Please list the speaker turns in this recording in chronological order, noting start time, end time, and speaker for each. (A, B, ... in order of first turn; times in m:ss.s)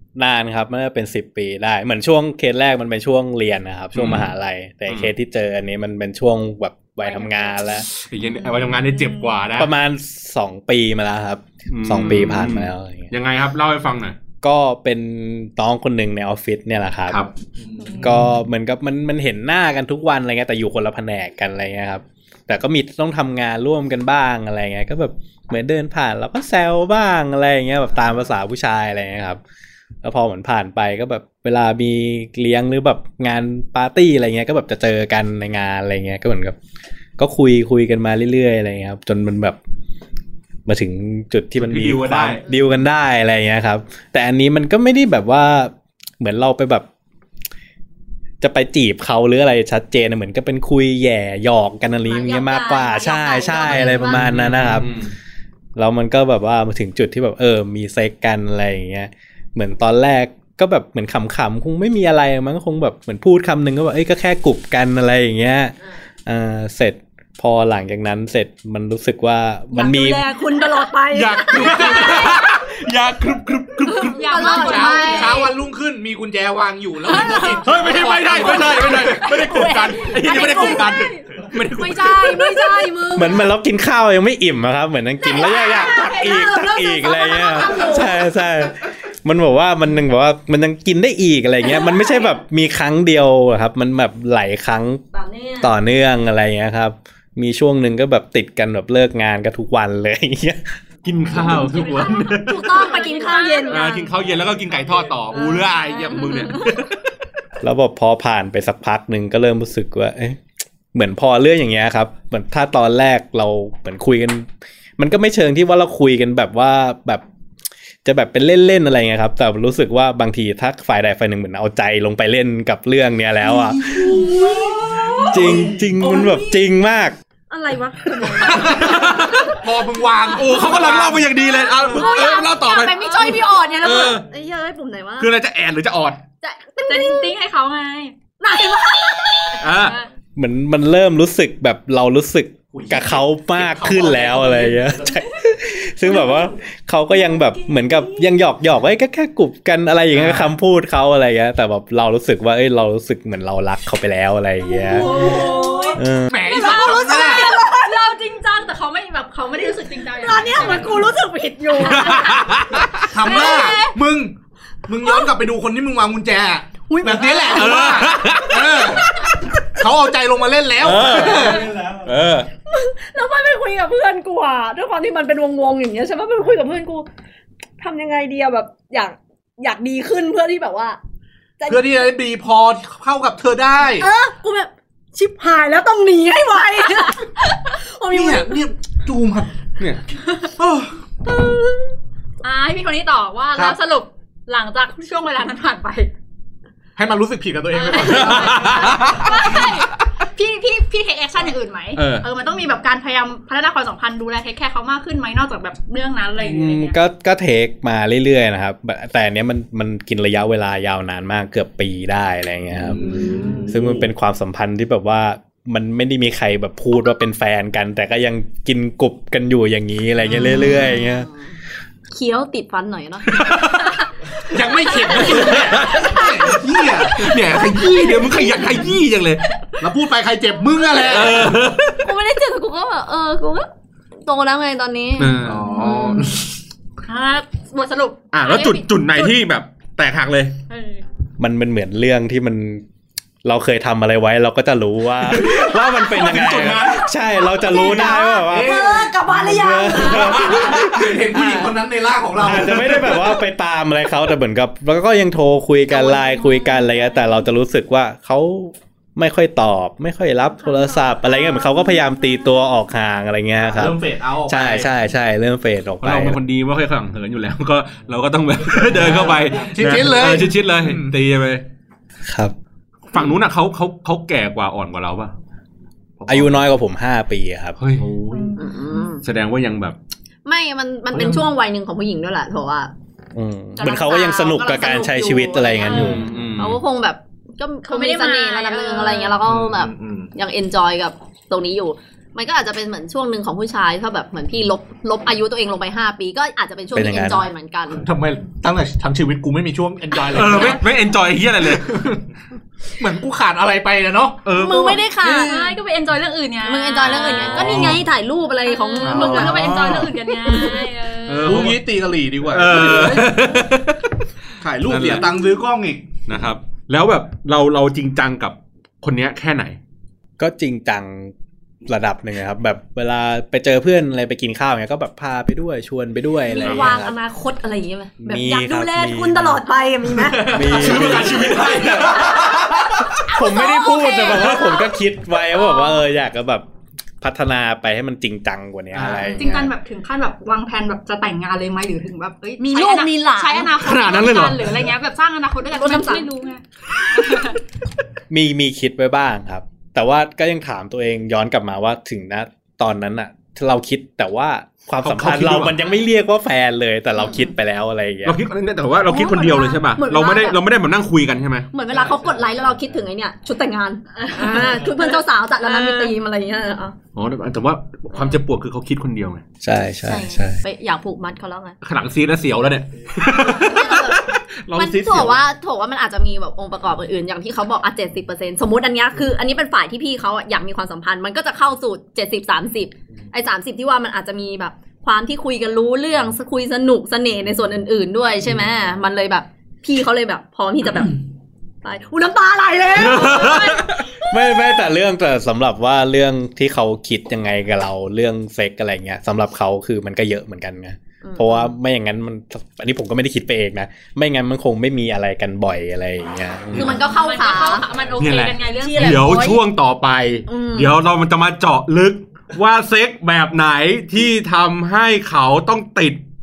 0:00.2-0:07.9 A
0:04.0-0:04.3 B
0:07.0-0:07.5 C
0:08.0-0:09.7 B
0:08.5-0:09.3 C
0:09.6-0:13.1 A
0:11.7-0:14.2 B
0:14.4-0:17.2 A
0:17.6-0:18.2 D
0:18.0-0:29.4 A
0:18.0-0:18.3 B
0:30.0-0:36.6 A
0:37.2-0:39.6 A
0:40.7-0:46.9 A
0:41.6-0:42.4 B
0:48.4-0:54.9 A
0:52.1-0:54.2 E
0:54.1-0:55.1 B
0:55.8-1:10.2 A
1:09.7-1:12.5 E
1:11.1-1:15.1 B
1:13.9-1:15.5 E
1:14.1-1:15.5 C
1:14.4-1:19.9 D
1:17.1-1:17.8 E
1:17.6-1:22.7 B
1:18.3-1:23.5 E
1:19.6-1:20.7 C
1:23.1-1:35.0 A
1:25.2-1:28.3 E
1:35.1-1:35.7 E
1:35.6-1:40.8 A
1:41.0-1:43.0 B
1:41.5-1:44.1 E
1:41.7-1:43.9 C
1:43.7-1:47.0 B
1:45.3-1:46.6 E
1:47.6-1:50.4 A
1:50.9-1:57.2 A
1:58.0-2:04.2 A
2:03.5-2:06.3 D
2:04.0-2:06.5 E
2:05.3-2:07.2 A
2:07.5-2:09.5 E
2:08.3-2:09.6 B
2:08.4-2:11.3 D
2:10.3-2:14.3 B
2:10.4-2:15.3 E
2:13.0-2:13.6 C
2:15.2-2:16.2 B
2:16.4-2:17.3 E
2:16.9-2:18.1 C
2:18.4-2:19.7 E
2:19.6-2:20.0 B
2:19.7-2:20.1 C
2:20.4-2:35.2 A
2:22.7-2:25.2 D
2:30.2-2:30.5 D
2:34.8-2:38.0 E
2:34.9-2:41.2 C
2:36.0-2:36.4 A
2:36.3-2:37.5 D
2:40.2-2:42.5 E
2:41.8-2:43.1 B
2:41.8-2:42.4 C
2:43.0-2:44.4 D
2:43.1-2:43.9 C
2:43.2-2:43.8 E
2:44.9-2:49.1 D
2:46.9-2:47.9 E
2:47.5-2:49.1 B
2:49.8-2:51.7 D
2:50.8-2:52.5 B
2:52.7-2:57.1 E
2:57.8-3:01.0 E
3:01.6-3:02.0 E
3:01.7-3:04.1 D
3:04.0-3:08.6 E
3:08.1-3:09.5 D
3:10.6-3:10.9 D
3:11.2-3:12.0 E
3:12.4-3:16.1 C
3:17.0-3:19.5 D
3:17.7-3:27.0 C
3:18.0-3:19.3 B
3:22.0-3:22.3 B
3:26.4-3:41.3 A
3:32.9-3:33.8 D
3:40.4-3:41.5 E
3:42.1-3:44.0 E
3:43.4-3:43.8 B
3:44.4-3:47.7 D
3:45.0-3:48.9 E
3:45.2-3:46.3 B
3:47.0-3:49.5 B
3:49.8-3:51.6 D
3:51.0-3:52.1 B
3:52.0-3:53.7 E
3:54.2-3:56.0 E
3:55.2-3:55.7 B
3:55.4-3:56.5 D
3:57.1-3:59.3 C
3:58.3-4:00.6 B
4:00.7-4:01.0 C
4:01.4-4:02.8 A
4:03.4-4:11.8 A
4:05.3-4:07.1 B
4:06.4-4:06.8 D
4:07.5-4:10.8 E
4:07.8-4:13.2 D
4:10.0-4:11.0 B
4:12.4-4:26.4 A
4:15.9-4:17.2 C
4:20.7-4:21.2 C
4:23.7-4:25.0 D
4:26.0-4:31.6 B
4:28.9-4:31.1 D
4:32.3-4:32.5 A
4:33.1-4:35.3 B
4:36.2-4:36.6 B
4:36.3-4:37.8 A
4:37.8-4:38.6 B
4:38.3-4:39.1 C
4:38.6-4:39.2 E
4:39.2-4:40.0 B
4:40.4-4:42.9 E
4:41.1-4:41.4 B
4:43.4-4:46.3 A
4:43.8-4:58.1 E
4:45.8-4:46.1 C
4:45.9-4:46.8 B
4:47.9-4:49.4 C
4:49.4-4:50.3 D
4:56.9-4:57.5 A
4:58.0-5:00.8 D
5:00.3-5:02.1 B
5:01.8-5:02.2 D
5:03.0-5:04.5 D
5:04.4-5:05.0 B
5:04.5-5:05.7 E
5:05.2-5:08.0 C
5:06.6-5:10.9 E
5:07.2-5:08.0 B
5:07.6-5:08.0 D
5:08.6-5:11.7 C
5:09.0-5:10.1 D
5:11.3-5:11.8 B
5:11.4-5:13.7 D
5:12.5-5:14.1 B
5:14.6-5:16.0 D
5:14.8-5:15.3 B
5:16.3-5:19.8 B
5:20.4-5:21.3 A
5:21.9-5:27.2 A
5:26.5-5:31.1 E
5:26.6-5:26.9 B
5:28.2-5:29.6 A
5:30.3-5:32.5 A
5:30.4-5:32.1 D
5:30.4-5:33.2 B
5:33.2-5:36.7 A
5:33.3-5:35.0 E
5:35.5-5:36.0 E
5:37.2-5:39.7 A
5:39.0-5:39.3 D
5:39.4-5:47.6 C
5:42.6-5:43.8 E
5:43.8-5:44.6 B
5:44.0-5:44.3 D
5:45.7-5:46.3 E
5:48.3-5:58.4 A
5:55.0-5:55.8 B
5:58.2-6:01.7 B
5:59.1-6:00.6 E
6:01.7-6:07.0 E
6:04.3-6:04.6 C
6:05.6-6:06.1 C
6:07.2-6:09.4 B
6:09.6-6:10.6 A
6:10.0-6:11.8 E
6:11.8-6:15.4 B
6:13.4-6:31.2 E
6:31.8-6:34.3 E
6:32.9-6:34.1 B
6:34.2-6:47.0 A
6:41.2-6:41.7 E
6:46.7-6:47.9 E
6:47.0-6:49.4 C
6:48.2-6:56.2 B
6:48.8-6:49.6 E
6:50.5-6:51.0 E